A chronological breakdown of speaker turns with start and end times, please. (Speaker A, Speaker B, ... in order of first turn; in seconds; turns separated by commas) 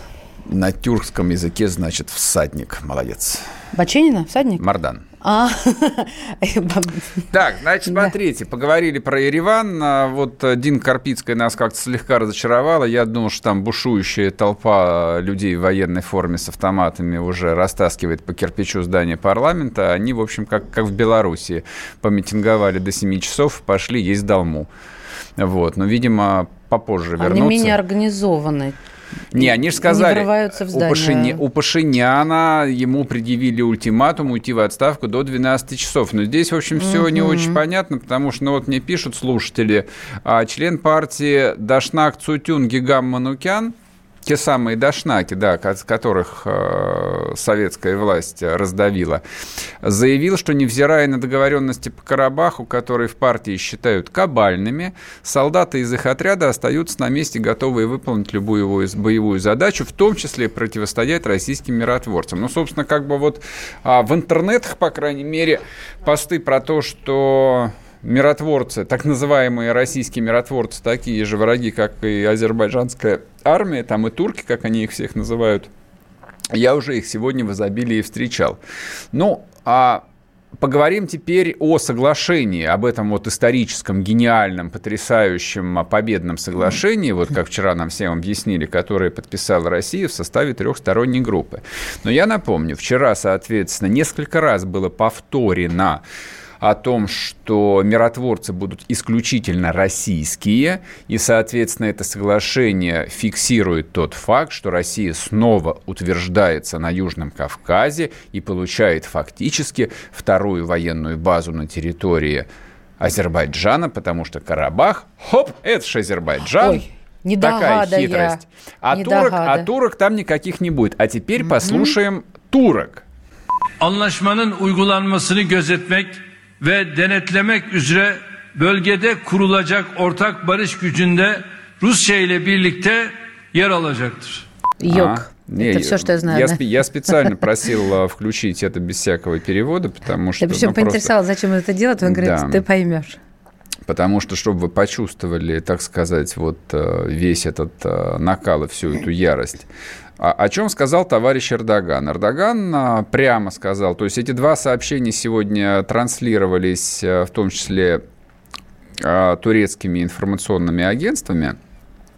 Speaker A: 0.5-3.5, Speaker B: 3.7-4.6, Speaker A: 4.6-5.0, Speaker B: 5.2-7.1, Speaker A: 7.3-24.7, Speaker A: 25.4-27.8, Speaker B: 27.2-28.8, Speaker A: 29.3-43.7, Speaker B: 29.4-31.4, Speaker B: 36.8-37.6, Speaker A: 44.2-49.2, Speaker A: 49.8-75.7, Speaker A: 76.5-78.6, Speaker A: 79.1-80.0, Speaker A: 80.6-96.0, Speaker A: 96.6-112.5, Speaker A: 113.0-116.8, Speaker B: 116.6-118.4, Speaker A: 117.4-123.0, Speaker B: 118.9-119.7, Speaker B: 121.6-121.9, Speaker C: 123.8-134.4, Speaker B: 134.8-136.6, Speaker A: 134.9-141.1, Speaker B: 140.4-143.2, Speaker A: 142.0-142.6, Speaker A: 143.9-149.7, Speaker A: 150.2-158.0, Speaker A: 159.0-161.6